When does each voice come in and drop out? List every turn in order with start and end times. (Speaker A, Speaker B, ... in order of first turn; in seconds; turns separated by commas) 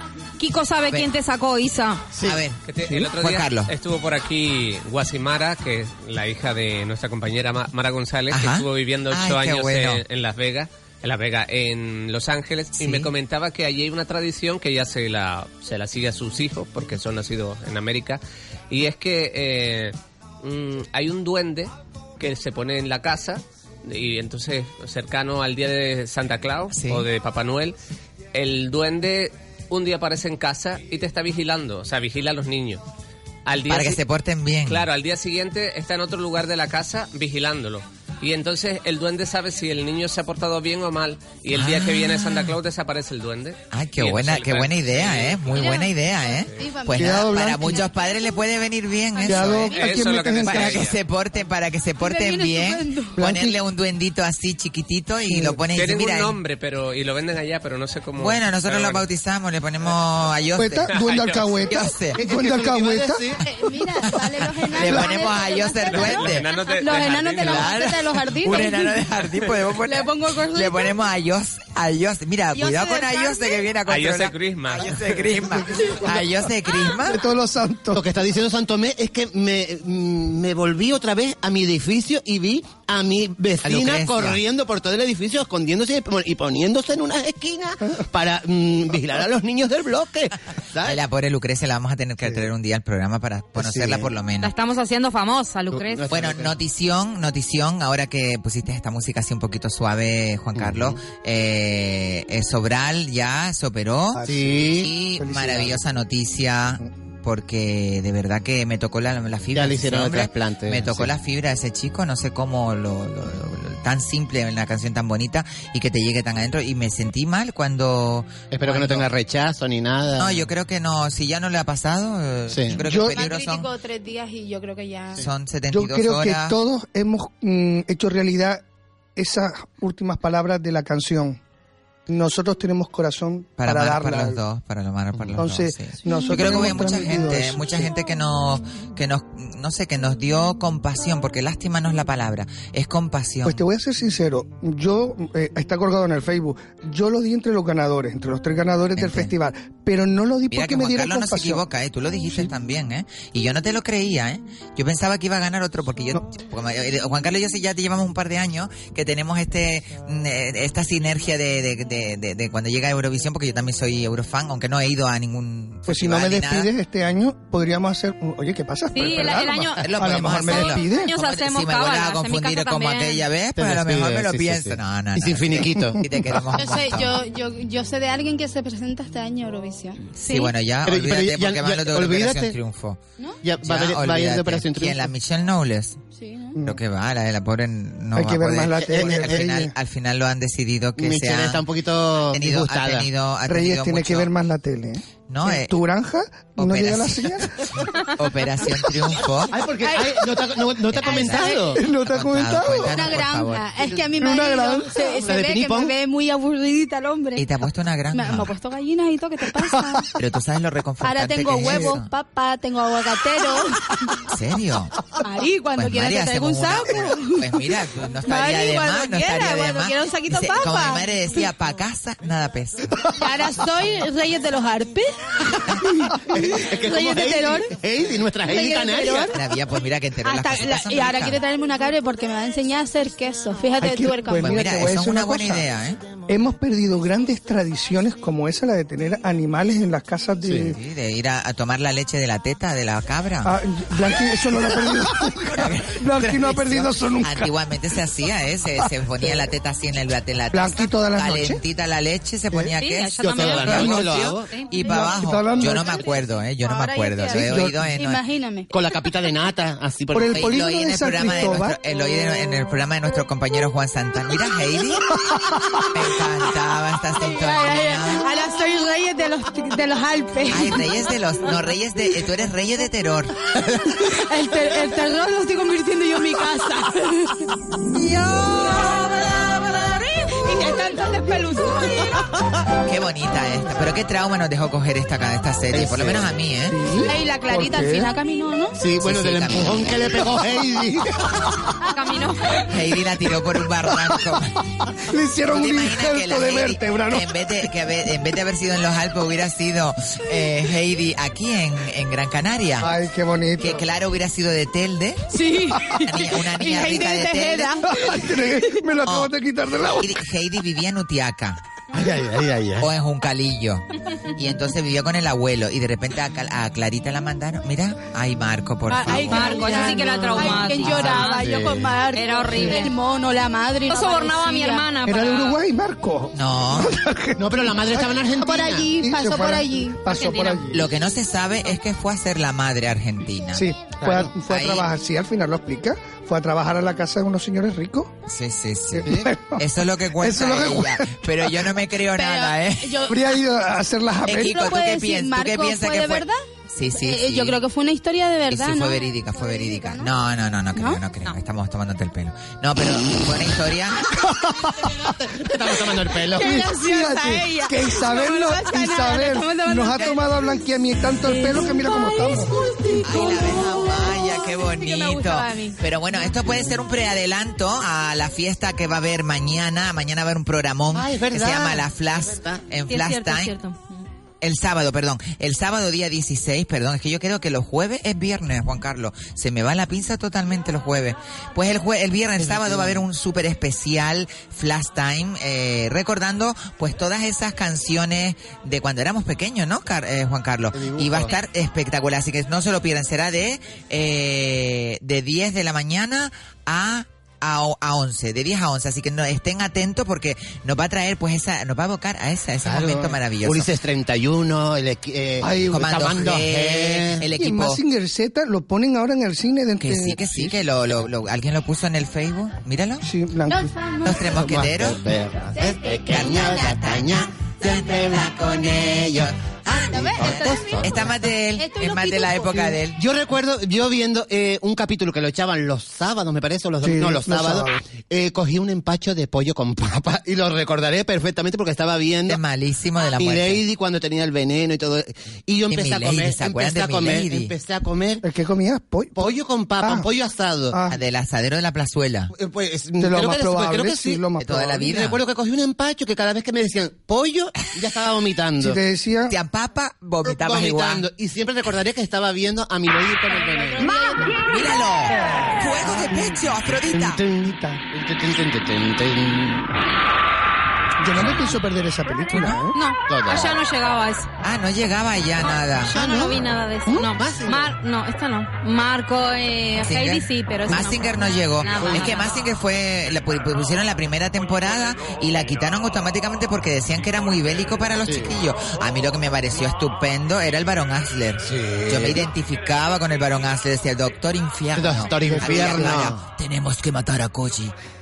Speaker A: 0.4-2.0, Speaker B: 2.2-2.6, Speaker C: 2.6-27.8, Speaker B: 3.1-3.7, Speaker B: 8.3-10.0, Speaker B: 12.8-13.1, Speaker B: 26.7-27.1, Speaker C: 28.3-32.8, Speaker C: 33.5-34.0, Speaker B: 33.7-34.9, Speaker C: 34.7-45.7, Speaker B: 41.5-42.5, Speaker B: 43.7-49.8, Speaker D: 45.5-48.1, Speaker E: 46.9-47.8, Speaker E: 49.2-50.9, Speaker C: 49.5-51.0, Speaker B: 50.4-56.4, Speaker D: 52.0-53.2, Speaker E: 53.2-53.6, Speaker E: 55.3-55.6, Speaker C: 55.7-59.0, Speaker B: 58.2-60.9, Speaker E: 60.6-63.2, Speaker C: 60.9-61.4, Speaker B: 61.7-62.2, Speaker F: 62.2-63.4, Speaker D: 63.4-69.1, Speaker B: 64.1-66.5, Speaker C: 65.9-67.8, Speaker B: 67.4-77.2, Speaker D: 69.8-71.0, Speaker D: 72.5-73.7, Speaker C: 73.9-75.3, Speaker E: 75.5-78.0, Speaker F: 77.9-91.0, Speaker B: 83.6-84.4, Speaker B: 90.8-94.5, Speaker F: 93.5-94.1, Speaker A: 94.4-96.0, Speaker F: 95.7-96.5, Speaker B: 96.1-104.2, Speaker F: 100.5-100.9, Speaker E: 104.1-105.8, Speaker F: 104.2-104.9, Speaker B: 104.8-119.0, Speaker F: 109.5-111.1, Speaker F: 118.5-120.5, Speaker B: 120.2-123.7, Speaker F: 122.5-122.8, Speaker E: 122.7-123.3, Speaker D: 123.1-125.2, Speaker B: 125.2-126.5, Speaker E: 125.7-128.6, Speaker E: 129.2-131.4, Speaker E: 132.1-134.4, Speaker B: 133.6-143.6, Speaker E: 135.3-137.9, Speaker E: 143.4-151.6, Speaker B: 148.9-149.3, Speaker B: 150.5-166.7, Speaker E: 165.9-171.1, Speaker A: 168.9-173.2, Speaker B: 169.8-177.2, Speaker F: 173.6-176.0, Speaker E: 176.0-176.5, Speaker D: 176.5-180.0, Speaker A: 180.2-180.5, Speaker B: 180.2-183.0, Speaker F: 180.8-182.6, Speaker F: 183.4-185.1, Speaker B: 183.6-186.0, Speaker D: 186.1-186.6, Speaker B: 186.6-191.6, Speaker E: 188.1-189.7, Speaker F: 188.8-189.5, Speaker F: 191.0-193.1, Speaker B: 192.3-194.3, Speaker E: 193.5-197.6, Speaker B: 195.3-195.7, Speaker B: 196.6-197.4, Speaker B: 198.2-199.5, Speaker F: 199.5-201.8, Speaker D: 199.8-200.1, Speaker B: 200.9-203.7, Speaker D: 201.0-201.7, Speaker E: 201.8-203.1, Speaker D: 202.9-207.4, Speaker E: 204.2-205.1, Speaker F: 205.2-205.9, Speaker B: 207.3-208.5, Speaker D: 208.1-210.1, Speaker E: 209.7-210.0, Speaker B: 210.2-212.1, Speaker D: 211.0-214.1, Speaker B: 214.3-215.0, Speaker D: 215.2-217.7, Speaker B: 215.7-222.9, Speaker D: 218.2-221.1, Speaker D: 223.1-227.7, Speaker F: 226.3-229.3, Speaker D: 228.5-229.4, Speaker B: 229.3-231.4, Speaker D: 230.2-234.6, Speaker E: 233.8-235.7, Speaker B: 234.4-236.0, Speaker E: 236.3-240.8, Speaker F: 240.4-240.7, Speaker B: 240.7-243.5, Speaker E: 243.4-247.5, Speaker B: 245.4-258.2, Speaker E: 249.2-249.5, Speaker E: 250.5-251.6, Speaker A: 252.8-254.7, Speaker F: 253.2-254.5, Speaker E: 254.8-256.0, Speaker D: 255.8-258.7, Speaker E: 257.3-257.8, Speaker F: 258.7-260.6, Speaker E: 260.1-261.8, Speaker B: 260.3-265.1, Speaker E: 265.3-265.5, Speaker B: 265.9-268.3, Speaker D: 267.2-270.9, Speaker B: 270.5-273.4, Speaker F: 273.6-274.0, Speaker D: 274.0-277.4, Speaker D: 278.3-282.2, Speaker B: 282.9-286.8, Speaker F: 285.7-286.3, Speaker E: 286.7-288.1, Speaker D: 287.0-288.8, Speaker F: 288.7-291.4, Speaker B: 289.0-290.2, Speaker A: 291.9-292.6, Speaker B: 292.7-294.6, Speaker E: 295.0-297.4, Speaker B: 295.5-302.9, Speaker E: 302.8-303.8, Speaker B: 303.6-305.2, Speaker D: 305.3-308.6, Speaker B: 306.0-307.7, Speaker E: 307.9-310.1, Speaker B: 309.1-309.3, Speaker B: 310.0-311.6, Speaker F: 311.9-312.9, Speaker B: 312.8-313.8, Speaker B: 314.4-319.8, Speaker D: 318.9-324.9, Speaker A: 319.1-321.5, Speaker F: 319.9-321.9, Speaker A: 322.1-322.9, Speaker E: 322.5-322.8, Speaker A: 323.9-325.6, Speaker E: 325.1-328.3, Speaker B: 326.3-326.9, Speaker F: 327.4-328.9, Speaker D: 328.3-330.0, Speaker E: 328.9-330.9, Speaker A: 330.1-330.6, Speaker B: 330.7-333.6, Speaker E: 333.5-338.1, Speaker F: 334.0-334.3, Speaker B: 334.4-334.9, Speaker B: 338.3-343.0, Speaker E: 338.9-339.6, Speaker E: 340.2-341.2, Speaker D: 342.1-343.2, Speaker E: 343.1-344.7, Speaker B: 344.2-347.6, Speaker D: 344.3-346.4, Speaker D: 346.9-350.1, Speaker B: 348.5-354.1, Speaker D: 350.7-351.0, Speaker E: 354.1-355.0, Speaker F: 355.2-356.5, Speaker D: 356.3-360.2, Speaker E: 356.4-362.5, Speaker D: 361.2-365.8, Speaker B: 363.0-373.5, Speaker F: 370.9-372.6, Speaker A: 372.9-374.0, Speaker B: 374.4-403.7, Speaker F: 382.4-383.1, Speaker F: 390.7-391.4, Speaker F: 402.6-407.3, Speaker E: 405.4-405.9, Speaker B: 405.7-407.8, Speaker E: 407.3-410.5, Speaker B: 409.8-413.0, Speaker E: 413.0-413.7, Speaker D: 413.5-414.4, Speaker B: 414.0-415.1, Speaker F: 414.3-421.1, Speaker D: 415.5-416.6, Speaker B: 416.1-419.3, Speaker D: 419.8-422.8, Speaker B: 420.2-423.0, Speaker F: 422.9-432.4, Speaker E: 426.8-427.8, Speaker B: 432.3-433.6, Speaker F: 433.1-438.2, Speaker B: 435.7-437.5, Speaker E: 438.2-440.1, Speaker F: 439.1-440.8, Speaker E: 440.7-441.0, Speaker B: 440.9-442.3, Speaker F: 442.3-448.8, Speaker E: 443.0-444.8, Speaker B: 444.4-445.2, Speaker E: 448.6-449.4, Speaker B: 449.3-451.1, Speaker F: 450.2-453.9, Speaker D: 453.3-454.8, Speaker B: 454.4-457.2, Speaker E: 455.1-456.4, Speaker F: 456.7-459.7, Speaker E: 457.4-457.8, Speaker E: 461.0-462.7, Speaker F: 461.2-461.5, Speaker B: 462.3-462.6, Speaker A: 462.7-464.3, Speaker F: 463.1-463.5, Speaker B: 464.4-466.0, Speaker A: 465.4-472.5, Speaker F: 465.9-467.7, Speaker B: 469.8-487.7, Speaker F: 471.8-472.1, Speaker F: 478.0-478.4, Speaker F: 481.4-482.3, Speaker F: 484.7-486.2, Speaker E: 485.2-485.7